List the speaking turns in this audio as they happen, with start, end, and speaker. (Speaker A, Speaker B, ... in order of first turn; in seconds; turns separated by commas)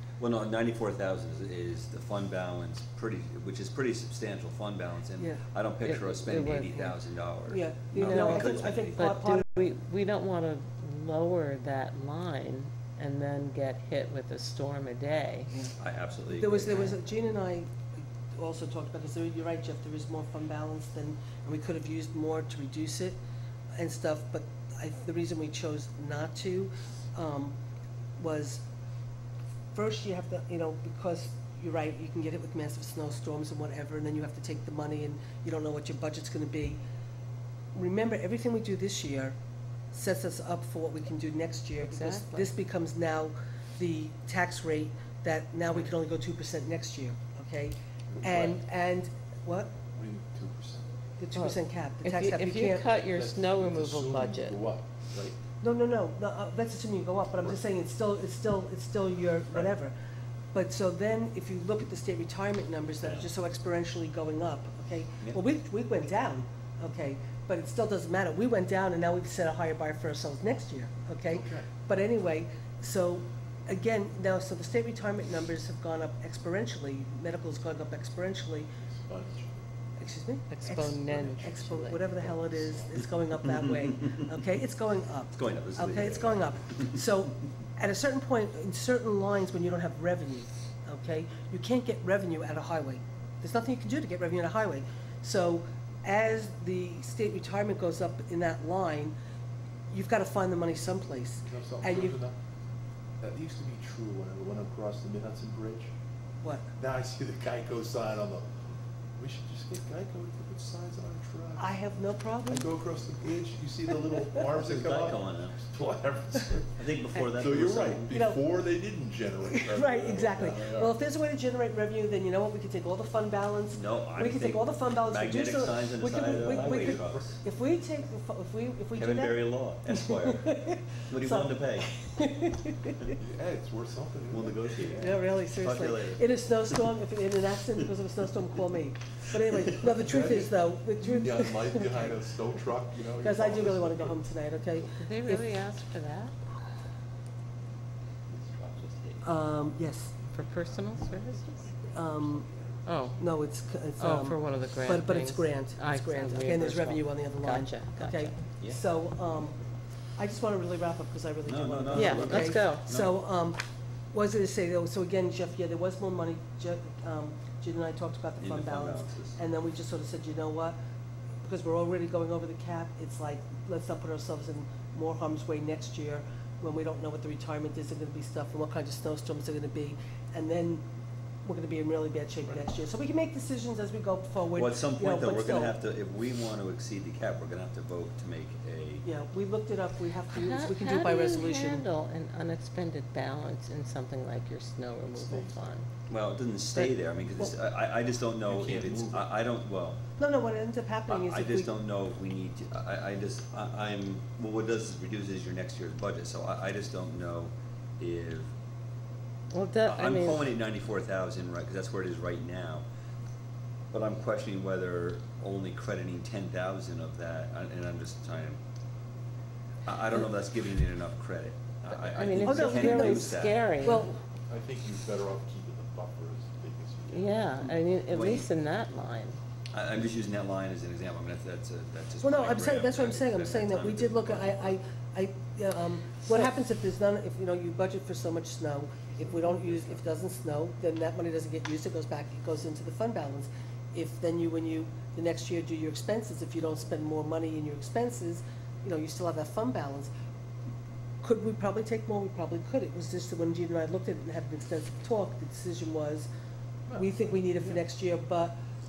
Speaker A: 0.2-9.1, Speaker B: 5.8-7.0, Speaker C: 7.5-9.7, Speaker B: 8.0-15.5, Speaker C: 15.5-15.8, Speaker A: 15.8-17.0, Speaker C: 16.3-17.7, Speaker C: 18.3-23.2, Speaker C: 23.8-27.6, Speaker C: 28.2-28.6, Speaker C: 29.7-36.8, Speaker C: 37.8-39.4, Speaker C: 39.9-49.8, Speaker B: 41.8-42.5, Speaker D: 48.1-48.6, Speaker D: 49.9-50.8, Speaker C: 51.2-53.0, Speaker B: 51.4-54.6, Speaker D: 53.1-55.4, Speaker C: 55.6-59.9, Speaker C: 60.5-78.7, Speaker D: 71.3-71.7, Speaker D: 78.9-79.6, Speaker C: 80.0-99.1, Speaker B: 80.5-82.0, Speaker D: 81.1-83.0, Speaker A: 83.5-84.3, Speaker A: 85.3-87.0, Speaker C: 99.9-102.2, Speaker D: 101.4-102.3, Speaker D: 103.2-105.9, Speaker C: 106.4-106.7, Speaker D: 106.8-108.5, Speaker D: 109.2-111.7, Speaker C: 111.6-112.7, Speaker D: 112.5-116.6, Speaker C: 114.0-114.6, Speaker A: 114.6-115.6, Speaker A: 116.7-118.1, Speaker D: 117.4-120.9, Speaker C: 118.1-118.5, Speaker C: 119.4-133.2, Speaker A: 123.7-127.4, Speaker D: 126.5-127.4, Speaker A: 129.0-130.5, Speaker A: 131.1-131.9, Speaker D: 133.2-135.3, Speaker A: 134.3-137.0, Speaker C: 135.0-142.3, Speaker A: 139.3-140.0, Speaker D: 140.0-144.2, Speaker C: 143.2-145.5, Speaker B: 145.0-146.3, Speaker A: 148.3-149.3, Speaker C: 149.2-150.2, Speaker B: 150.3-151.6, Speaker D: 150.6-153.3, Speaker C: 151.9-152.5, Speaker B: 152.9-153.1, Speaker C: 153.2-159.6, Speaker B: 154.0-158.3, Speaker C: 160.2-163.6, Speaker A: 161.4-163.1, Speaker B: 161.9-162.8, Speaker C: 164.1-170.8, Speaker A: 168.4-169.4, Speaker C: 171.4-180.8, Speaker C: 181.4-185.7, Speaker A: 184.5-189.1, Speaker C: 189.1-191.8, Speaker B: 190.3-195.9, Speaker D: 195.2-195.6, Speaker A: 196.1-200.0, Speaker D: 198.4-199.3, Speaker C: 200.2-201.7, Speaker A: 201.1-208.5, Speaker B: 209.5-210.4, Speaker A: 209.8-212.8, Speaker A: 213.9-218.6, Speaker A: 219.9-223.6, Speaker B: 221.9-224.1, Speaker C: 222.4-224.1, Speaker D: 224.5-227.3, Speaker B: 227.1-229.4, Speaker A: 227.6-228.5, Speaker A: 229.7-234.8, Speaker C: 232.2-250.1, Speaker D: 239.4-239.9, Speaker C: 251.2-256.3, Speaker C: 256.9-258.6